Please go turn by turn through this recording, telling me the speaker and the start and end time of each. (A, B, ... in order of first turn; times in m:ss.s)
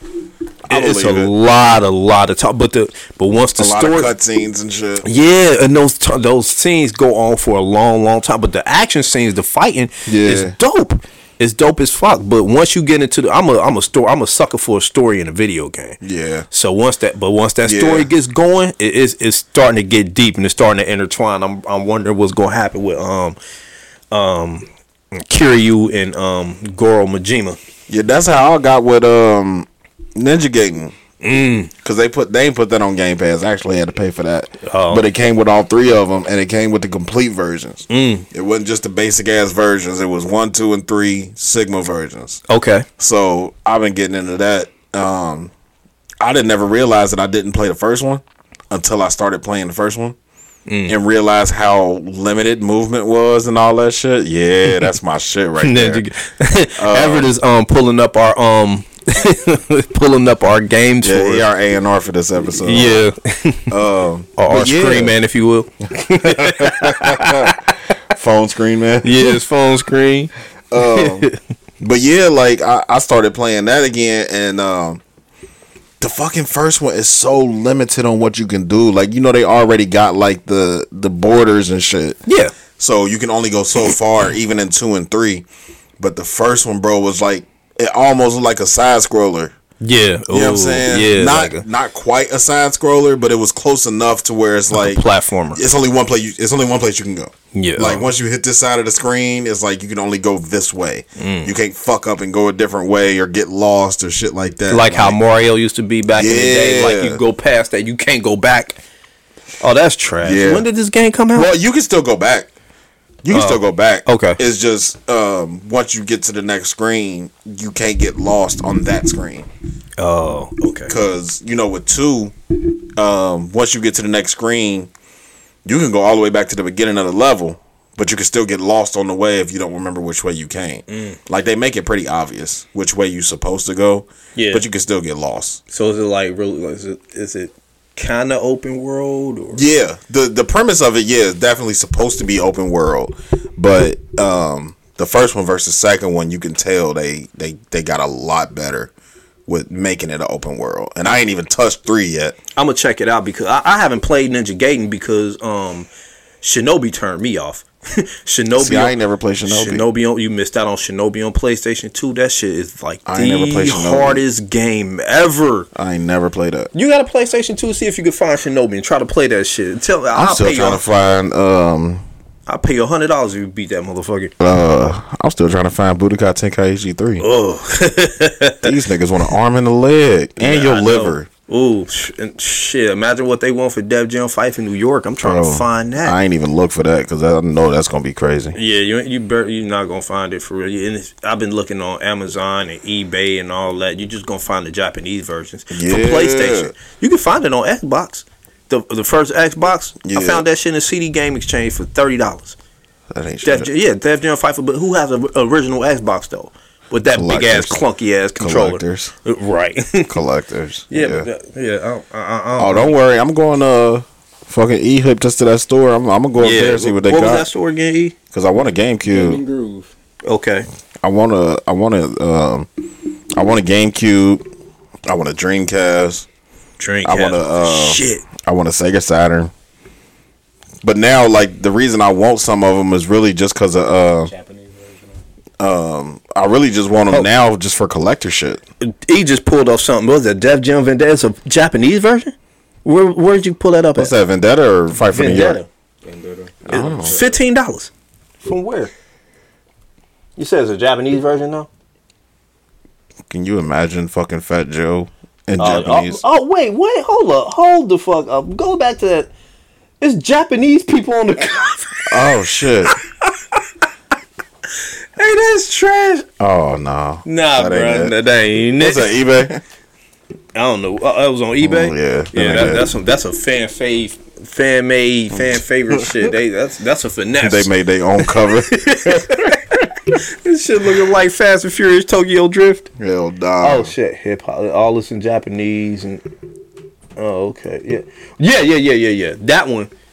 0:00.7-0:01.3 A
0:00.7-0:04.1 B
0:03.6-0:05.0 A
0:05.0-0:16.0 B
0:10.0-0:10.5 A
0:16.0-0:16.5 A
0:16.5-0:23.4 B
0:17.6-0:18.1 A
0:24.1-0:27.6 B
0:27.9-0:30.9 A
0:31.2-0:31.7 B
0:31.8-0:42.4 A
0:34.6-0:35.0 B
0:37.9-0:38.2 B
0:42.5-0:42.9 B
0:43.0-0:45.5 A
0:46.2-0:50.2 A
0:50.7-0:50.9 B
0:50.9-0:56.1 A
0:55.6-1:01.5 B
0:56.8-0:57.3 A
1:01.0-1:03.0 A
1:02.6-1:03.7 B
1:03.7-1:05.1 A
1:04.4-1:07.8 B
1:06.1-1:07.6 A
1:08.1-1:09.4 A
1:09.0-1:11.4 B
1:10.7-1:11.2 A
1:11.8-1:15.0 A
1:16.0-1:22.2 A
1:22.2-1:22.5 B
1:22.8-1:25.4 A
1:26.0-1:29.5 A
1:29.8-1:31.6 B
1:30.3-1:45.2 A
1:34.7-1:35.6 B
1:37.5-1:38.0 B
1:41.2-1:41.5 B
1:44.7-1:48.8 B
1:46.1-1:47.2 A
1:49.6-1:51.5 B
1:50.2-1:50.7 A
1:51.3-1:52.5 A
1:53.2-1:59.5 A
1:53.3-1:54.4 B
2:00.0-2:01.0 B
2:00.9-2:02.3 A
2:03.0-2:04.9 A
2:05.6-2:15.6 A
2:10.9-2:11.2 B
2:14.3-2:14.6 B
2:15.7-2:19.6 B
2:19.5-2:28.9 A
2:29.5-2:32.4 A
2:32.6-2:35.9 B
2:36.4-2:45.7 B
2:38.6-2:39.9 A
2:43.0-2:44.2 A
2:45.7-2:46.7 A
2:46.7-2:50.9 B
2:50.1-2:52.0 A
2:52.5-2:54.3 B
2:54.4-2:57.2 A
2:57.2-2:58.7 B
2:58.6-3:01.3 A
3:00.4-3:06.2 B
3:05.2-3:08.6 A
3:08.5-3:22.6 B
3:15.7-3:16.7 A
3:20.0-3:20.4 A
3:23.1-3:23.7 A
3:23.4-3:30.1 B
3:27.1-3:27.8 A
3:28.4-3:29.1 A
3:30.1-3:31.3 A
3:30.9-3:32.9 B
3:32.6-3:37.5 A
3:36.4-3:38.1 B
3:38.3-3:39.4 A
3:39.0-3:39.9 C
3:40.2-3:40.6 B
3:41.0-3:42.7 A
3:43.4-3:44.5 A
3:45.0-3:46.3 A
3:46.8-3:48.2 B
3:47.0-3:49.5 A
3:50.8-3:54.3 A
3:54.2-3:55.2 C
3:55.6-3:58.6 A
3:58.8-4:04.1 B
4:04.0-4:05.6 A
4:05.1-4:05.7 B
4:06.0-4:07.4 C
4:06.7-4:07.9 B
4:06.7-4:07.2 A
4:08.4-4:08.9 B
4:10.4-4:11.7 B
4:13.3-4:16.2 A
4:15.6-4:19.3 B
4:20.0-4:22.3 B
4:22.0-4:22.9 A
4:22.9-4:23.6 B
4:25.2-4:26.2 B
4:26.4-4:28.2 A
4:27.2-4:29.1 B
4:28.8-4:29.6 A
4:30.5-4:42.9 B
4:31.6-4:32.9 A
4:35.4-4:36.2 A
4:37.4-4:39.3 A
4:43.0-4:43.9 A
4:43.6-4:46.2 B
4:47.2-4:49.9 B